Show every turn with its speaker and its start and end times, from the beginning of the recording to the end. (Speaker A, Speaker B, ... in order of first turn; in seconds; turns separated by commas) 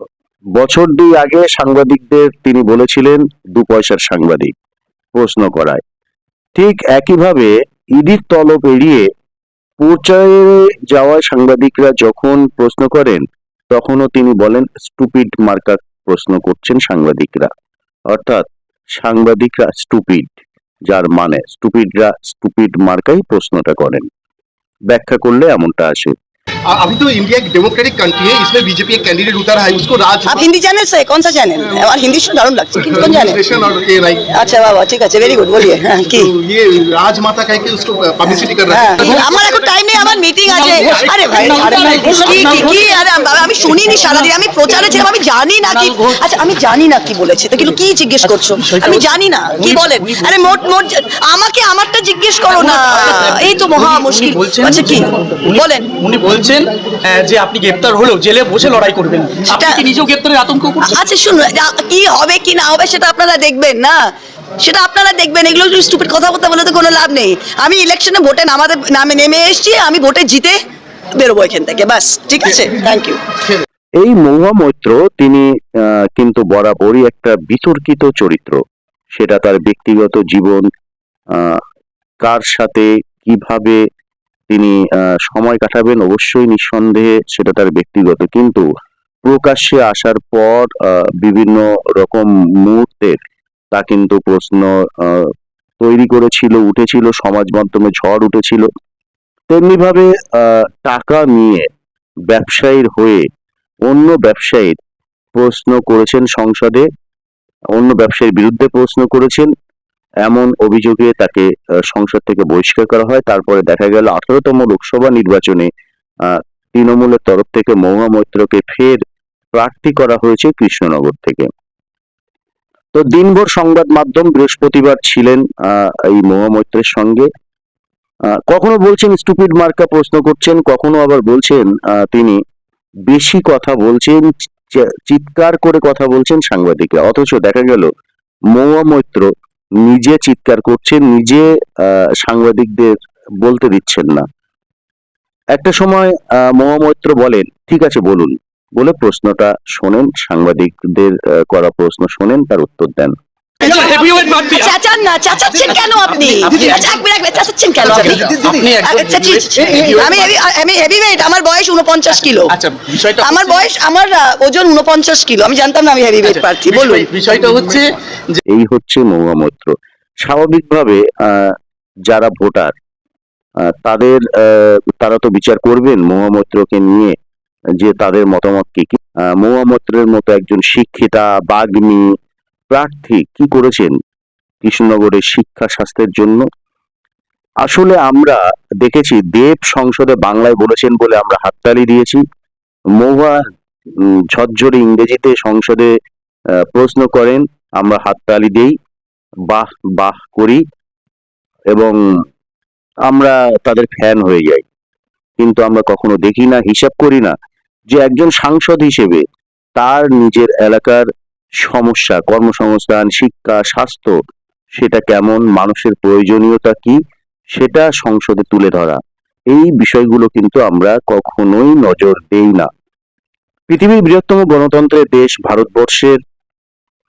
Speaker A: 0.6-4.5, Speaker A: 5.2-5.8, Speaker A: 6.5-9.1, Speaker A: 9.8-17.5, Speaker A: 18.1-24.1, Speaker A: 24.9-26.1, Speaker B: 26.7-30.5, Speaker C: 30.3-33.4, Speaker B: 32.8-34.3, Speaker C: 34.3-36.3, Speaker B: 36.1-39.7, Speaker C: 38.3-55.9, Speaker D: 39.0-39.3, Speaker D: 40.5-43.1, Speaker D: 43.9-45.0, Speaker D: 45.6-46.2, Speaker D: 48.2-50.4, Speaker D: 52.5-61.0, Speaker C: 59.5-59.8, Speaker C: 60.8-70.6, Speaker C: 71.2-73.2, Speaker A: 74.0-78.6, Speaker A: 79.2-80.7, Speaker A: 81.3-81.6, Speaker A: 82.2-83.8, Speaker A: 84.5-88.6, Speaker A: 89.2-93.2, Speaker A: 93.7-98.7, Speaker A: 99.5-101.7, Speaker A: 102.3-103.3, Speaker A: 103.9-104.8, Speaker A: 105.3-106.9, Speaker A: 107.8-109.5, Speaker A: 110.2-115.7, Speaker A: 116.3-119.0, Speaker A: 119.5-121.5, Speaker A: 123.0-127.3, Speaker A: 128.3-132.4, Speaker A: 133.1-137.9, Speaker A: 138.5-139.3, Speaker A: 139.8-144.3, Speaker A: 145.6-153.2, Speaker D: 153.6-154.8, Speaker C: 153.6-162.5, Speaker D: 155.7-157.0, Speaker D: 157.8-160.3, Speaker B: 157.8-158.7, Speaker D: 162.3-163.7, Speaker C: 163.2-167.1, Speaker D: 166.2-168.4, Speaker A: 168.5-171.6, Speaker A: 172.1-172.7, Speaker A: 173.7-177.2, Speaker A: 177.8-182.1, Speaker A: 182.7-183.9, Speaker A: 184.6-186.5, Speaker A: 187.7-192.2, Speaker A: 193.0-193.4, Speaker A: 194.3-195.9, Speaker A: 196.7-198.8, Speaker A: 199.5-200.6, Speaker A: 203.1-204.7, Speaker A: 205.4-207.3, Speaker A: 207.9-209.2, Speaker A: 209.8-211.1, Speaker A: 211.6-214.2, Speaker A: 214.8-217.0, Speaker A: 217.6-219.0, Speaker A: 219.5-222.7, Speaker A: 223.7-226.2